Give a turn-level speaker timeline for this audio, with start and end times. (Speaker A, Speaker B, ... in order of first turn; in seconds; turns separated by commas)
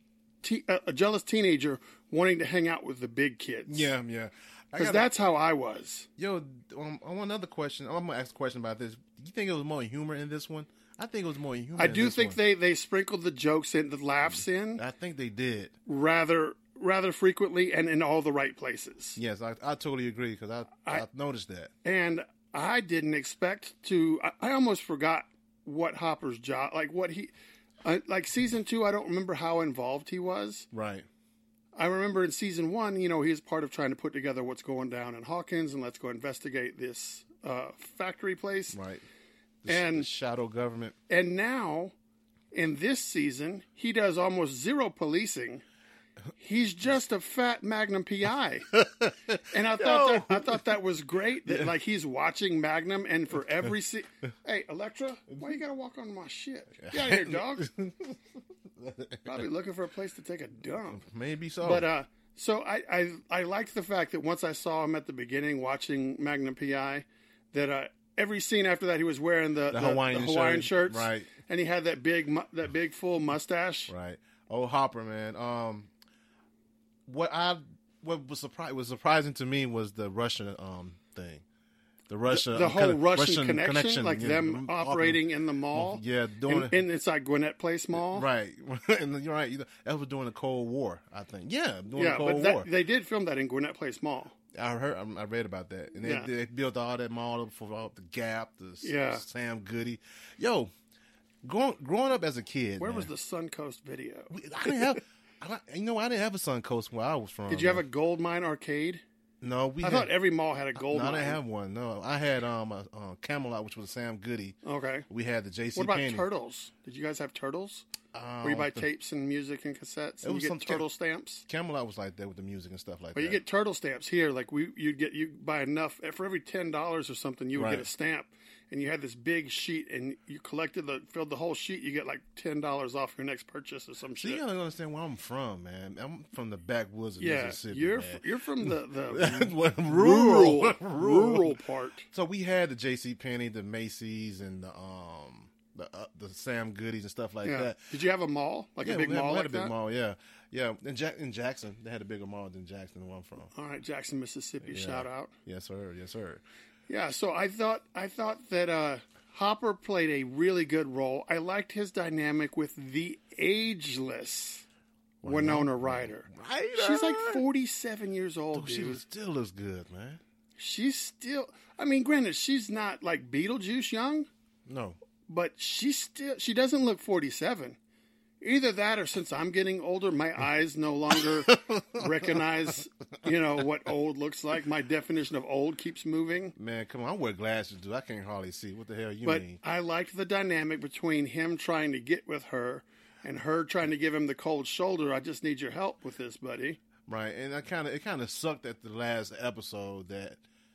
Speaker A: 0.4-3.9, Speaker B: 3.7-5.1, Speaker A: 4.8-6.1, Speaker B: 6.2-12.4, Speaker A: 11.8-14.8, Speaker B: 14.3-15.7, Speaker A: 15.9-19.2, Speaker B: 19.2-21.7, Speaker A: 21.8-27.3, Speaker A: 27.8-30.7, Speaker B: 30.7-31.1, Speaker A: 31.8-38.8, Speaker B: 38.7-39.0, Speaker B: 39.6-41.0, Speaker A: 39.7-40.1, Speaker A: 41.1-41.9, Speaker A: 42.5-45.6, Speaker A: 46.4-48.7, Speaker B: 48.7-50.6, Speaker A: 49.5-57.7, Speaker B: 51.5-51.7, Speaker B: 56.8-58.2, Speaker B: 58.8-59.5, Speaker A: 59.3-61.0, Speaker B: 60.9-61.9, Speaker A: 61.6-73.9, Speaker B: 69.7-71.3, Speaker B: 73.9-75.9, Speaker B: 77.1-81.4, Speaker B: 82.1-85.2, Speaker A: 82.3-88.3, Speaker B: 85.7-86.8, Speaker B: 88.0-92.7, Speaker A: 92.0-94.3, Speaker B: 94.5-100.7, Speaker A: 96.0-96.3, Speaker A: 98.8-99.2, Speaker B: 101.4-103.1, Speaker A: 102.8-105.0, Speaker B: 104.3-107.8, Speaker A: 107.5-109.0, Speaker B: 109.4-110.1, Speaker A: 109.8-111.4, Speaker B: 110.8-114.6, Speaker A: 114.7-115.1, Speaker B: 115.1-116.2, Speaker A: 115.8-117.8, Speaker B: 118.1-118.9, Speaker A: 118.4-121.4, Speaker B: 120.2-120.9, Speaker B: 121.5-123.4, Speaker A: 123.2-134.4, Speaker B: 127.5-127.9, Speaker B: 134.2-141.6, Speaker A: 137.2-142.1, Speaker B: 142.1-147.8, Speaker A: 147.4-149.7, Speaker B: 148.8-153.5, Speaker A: 153.5-155.3, Speaker B: 154.7-156.4, Speaker A: 156.9-164.7, Speaker B: 165.2-167.4, Speaker A: 165.2-169.0, Speaker B: 168.5-170.2, Speaker A: 170.6-174.3, Speaker B: 174.7-175.0, Speaker A: 175.3-177.8, Speaker A: 178.4-186.6, Speaker B: 181.2-182.4, Speaker B: 186.6-189.6, Speaker A: 189.2-196.8, Speaker B: 197.1-200.4